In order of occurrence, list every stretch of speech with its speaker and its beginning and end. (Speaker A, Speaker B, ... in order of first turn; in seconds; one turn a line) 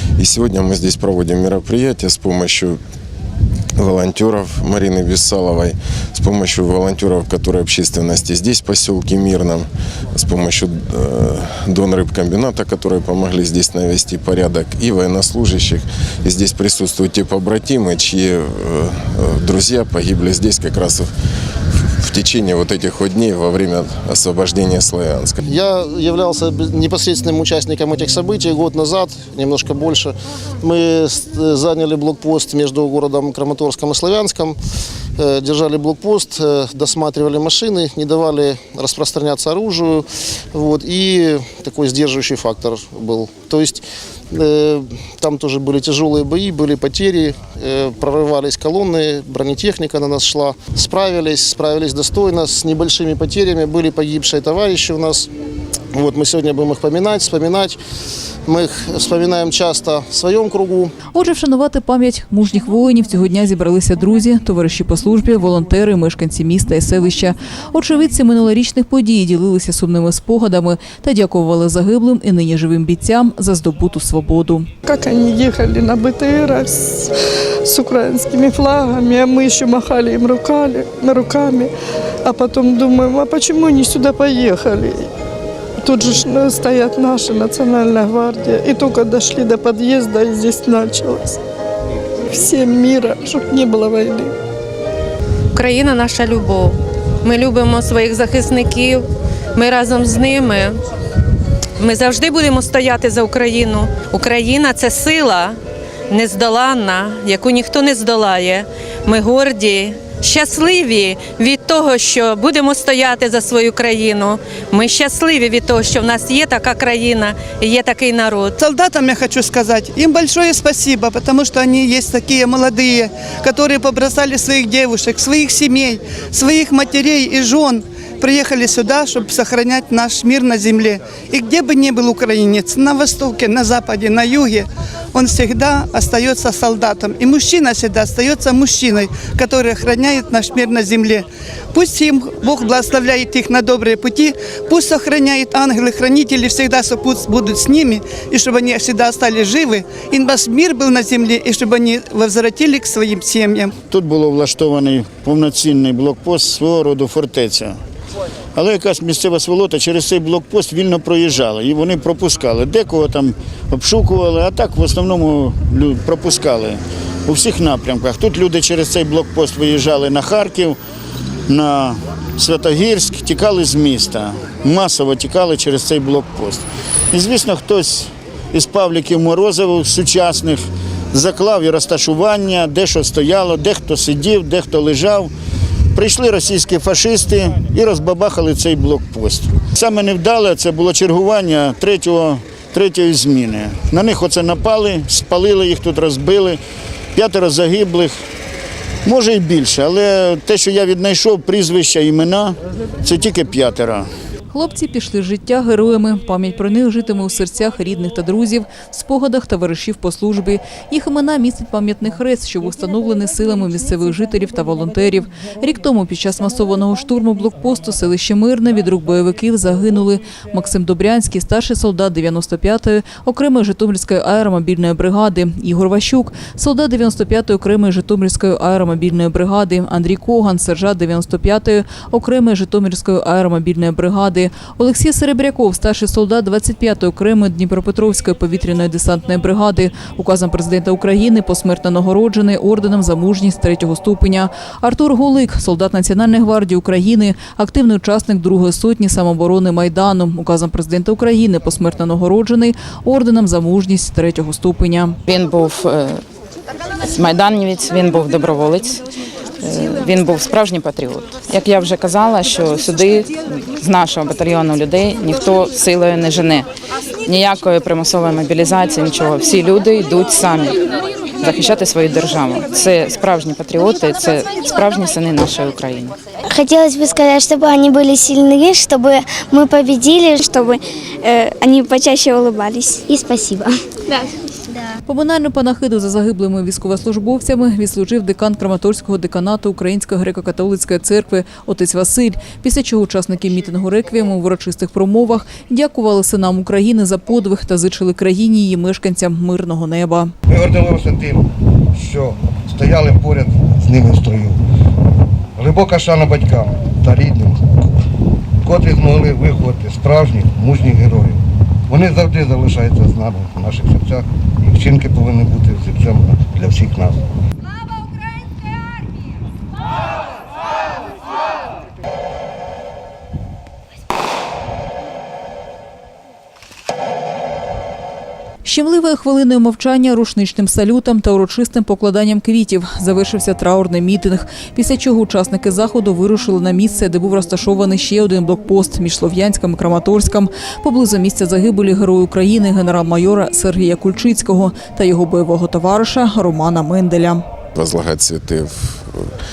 Speaker A: 0.2-2.8
Speaker A: 3.8-21.1
Speaker A: 22.0-25.4
Speaker B: 25.5-34.6
Speaker B: 35.2-55.3
Speaker B: 55.9-57.8
Speaker B: 58.5-60.9
Speaker C: 61.1-74.7
Speaker D: 74.9-77.0
Speaker D: 77.7-81.7
Speaker D: 82.3-84.9
Speaker D: 85.8-91.3
Speaker D: 92.4-94.2
Speaker E: 95.5-100.8
Speaker E: 101.8-105.5
Speaker E: 106.1-118.6
Speaker F: 118.6-153.7
Speaker G: 153.9-157.8
Speaker G: 158.6-170.8
Speaker G: 171.5-185.3
Speaker G: 185.9-196.6
Speaker G: 197.1-198.1
Speaker G: 199.1-204.1
Speaker C: 204.5-255.2
Speaker H: 255.3-256.2
Speaker H: 257.0-259.0
Speaker H: 259.6-266.7
Speaker H: 267.2-270.8
Speaker H: 271.4-276.1
Speaker I: 276.5-280.7
Speaker I: 281.2-283.7
Speaker C: 285.1-300.3
Speaker J: 300.5-304.6
Speaker J: 305.6-307.6
Speaker J: 308.6-317.2
Speaker C: 328.6-347.4
Speaker A: 347.8-349.0